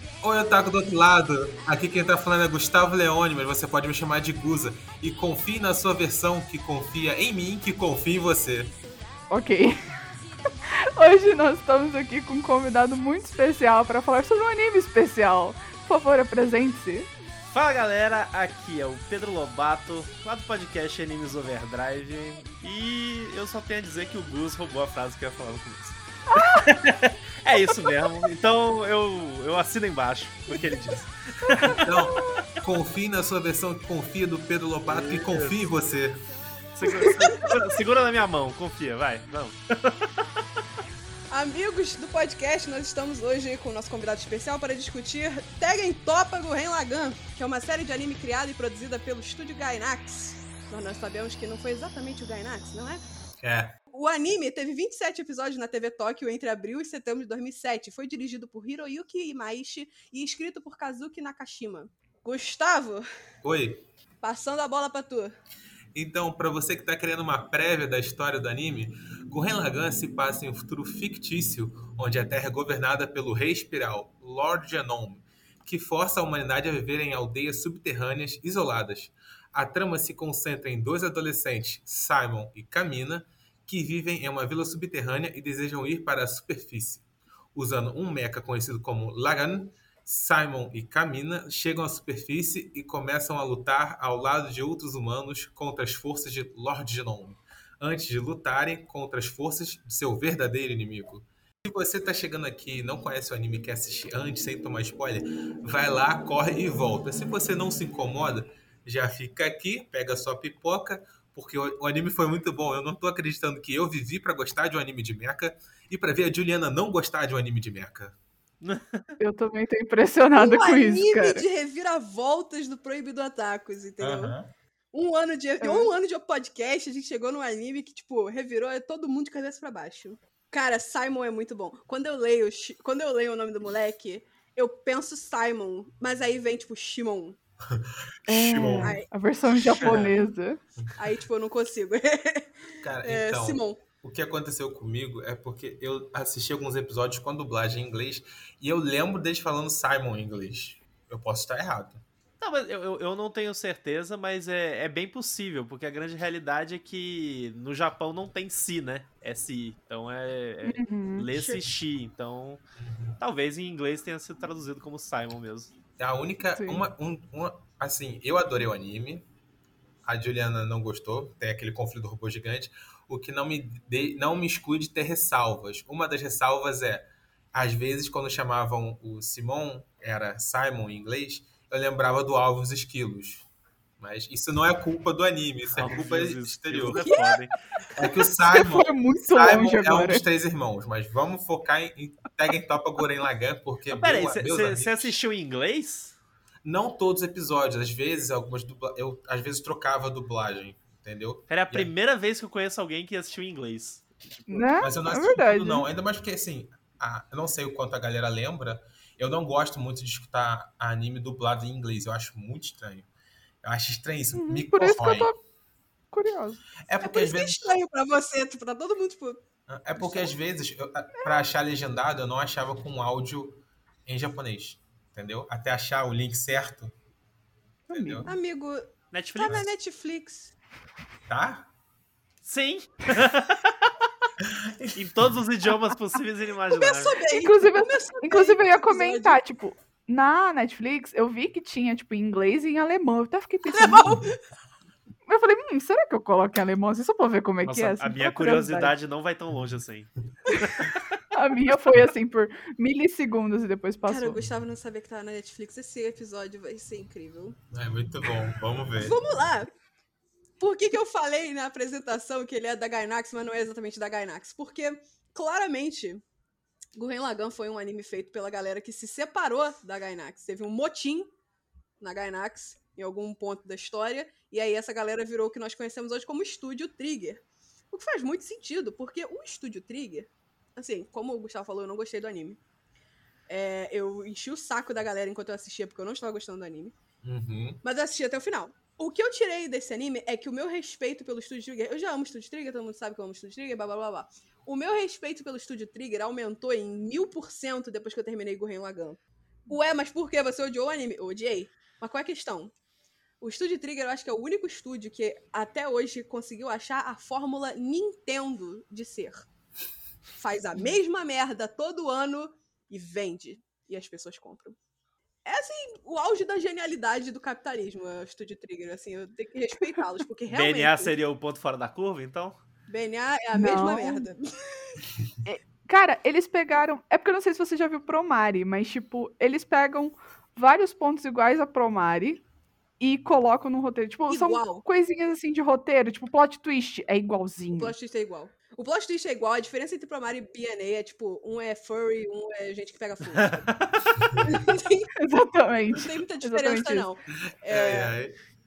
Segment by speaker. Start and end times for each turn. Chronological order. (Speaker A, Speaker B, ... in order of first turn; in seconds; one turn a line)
Speaker A: 0.2-8.7
Speaker B: 9.3-9.7
Speaker B: 10.7-17.1
Speaker C: 17.5-31.8
Speaker B: 26.3-26.7
Speaker A: 31.6-36.2
Speaker B: 32.1-32.4
Speaker C: 34.9-35.5
Speaker C: 36.7-40.2
Speaker D: 36.8-37.6
Speaker D: 41.3-53.0
Speaker A: 53.4-53.7
Speaker D: 53.9-63.0
Speaker A: 63.4-63.8
Speaker D: 64.2-65.4
Speaker A: 65.9-118.1
Speaker C: 118.6-119.0
Speaker B: 119.2-121.4
Speaker D: 120.4-124.3
Speaker A: 124.0-124.5
Speaker D: 124.9-137.4
Speaker B: 125.6-125.9
Speaker A: 137.7-139.0
Speaker B: 138.3-140.6
Speaker A: 139.8-140.1
Speaker C: 139.8-140.1
Speaker D: 140.9-143.8
Speaker A: 142.8-152.0
Speaker C: 152.4-162.6
Speaker B: 160.6-161.6
Speaker A: 162.8-163.2
Speaker C: 163.2-165.7
Speaker A: 166.0-169.2
Speaker B: 166.6-166.9
Speaker A: 170.0-183.5
Speaker A: 184.0-187.2
Speaker C: 185.8-187.5
Speaker D: 186.9-187.4
Speaker A: 187.9-195.2
Speaker B: 188.4-190.2
Speaker C: 193.9-196.2
Speaker A: 196.6-201.9
Speaker C: 201.5-204.8
Speaker B: 204.5-205.8
Speaker A: 204.8-213.1
Speaker A: 213.6-215.3
Speaker B: 214.3-215.4
Speaker B: 216.1-216.6
Speaker A: 216.9-217.7
Speaker D: 217.0-219.4
Speaker A: 219.7-226.9
Speaker D: 220.0-220.3
Speaker D: 221.2-221.4
Speaker B: 227.9-228.3
Speaker A: 227.9-228.3
Speaker D: 228.2-230.5
Speaker C: 229.1-229.7
Speaker A: 231.3-231.7
Speaker C: 232.4-233.9
Speaker A: 234.4-235.3
Speaker C: 234.9-237.2
Speaker D: 236.7-239.4
Speaker B: 237.3-244.1
Speaker D: 243.6-244.4
Speaker B: 245.2-248.9
Speaker C: 247.6-251.2
Speaker B: 251.3-254.4
Speaker D: 254.1-257.6
Speaker A: 257.7-259.2
Speaker D: 259.0-259.7
Speaker D: 260.6-266.2
Speaker D: 266.9-271.3
Speaker D: 272.0-282.6
Speaker D: 283.5-286.9
Speaker A: 287.2-287.8
Speaker D: 287.8-302.7
Speaker D: 303.4-309.5
Speaker D: 310.4-314.8
Speaker D: 315.4-321.1
Speaker C: 320.5-322.6
Speaker D: 322.9-325.0
Speaker B: 323.5-324.3
Speaker B: 325.4-332.4
Speaker B: 333.0-337.9
Speaker D: 334.3-334.8
Speaker D: 337.7-343.7
Speaker C: 343.3-344.4
Speaker D: 344.4-345.1
Speaker B: 345.1-347.1
Speaker D: 345.9-348.1
Speaker A: 347.6-348.3